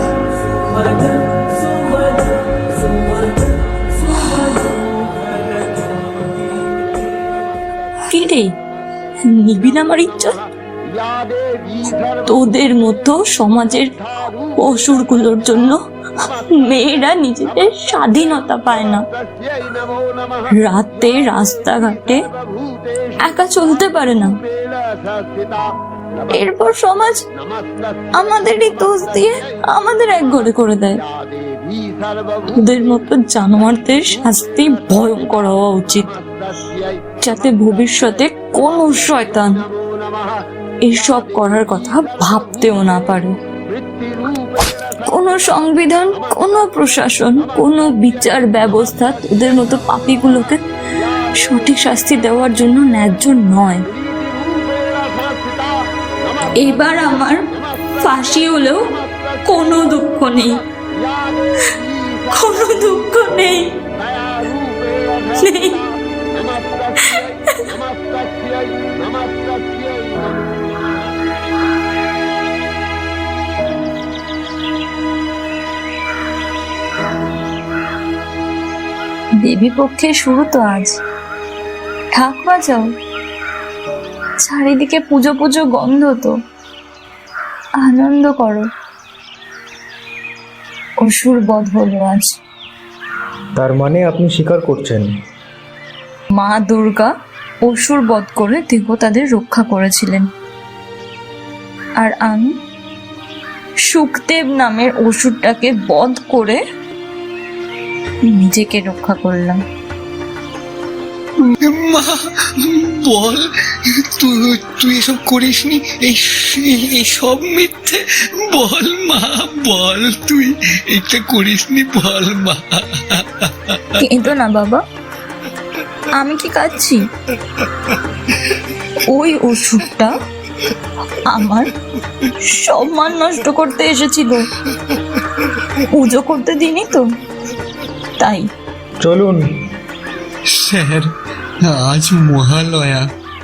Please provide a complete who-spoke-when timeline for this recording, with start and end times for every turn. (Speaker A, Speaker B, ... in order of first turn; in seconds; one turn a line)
Speaker A: 8.1-8.5
Speaker A: 9.2-10.4
Speaker A: 11.9-13.9
Speaker A: 14.6-15.8
Speaker A: 16.3-19.0
Speaker A: 20.5-22.2
Speaker A: 23.2-24.4
Speaker A: 26.3-27.2
Speaker A: 28.1-31.0
Speaker A: 32.5-36.1
Speaker A: 37.2-39.5
Speaker A: 40.8-43.4
Speaker A: 45.0-50.6
Speaker A: 51.4-53.8
Speaker A: 56.6-57.4
Speaker A: 58.0-58.8
Speaker A: 59.4-60.6
Speaker A: 62.3-63.7
Speaker A: 65.4-65.8
Speaker A: 67.0-67.6
Speaker A: 79.4-81.0
Speaker A: 82.1-82.9
Speaker A: 84.4-86.3
Speaker A: 87.8-88.7
Speaker A: 91.0-92.4
Speaker B: 93.6-95.0
Speaker A: 96.3-97.1
Speaker A: 97.7-100.3
Speaker A: 102.0-102.5
Speaker A: 103.9-106.6
Speaker A: 108.3-109.6
Speaker C: 111.4-113.4
Speaker C: 114.2-123.8
Speaker A: 124.0-124.8
Speaker A: 126.2-127.0
Speaker A: 129.1-130.1
Speaker A: 131.3-131.7
Speaker A: 132.4-134.4
Speaker A: 135.9-137.1
Speaker A: 138.2-138.5
Speaker B: 139.0-139.4
Speaker C: 140.5-141.1
Speaker C: 141.6-143.0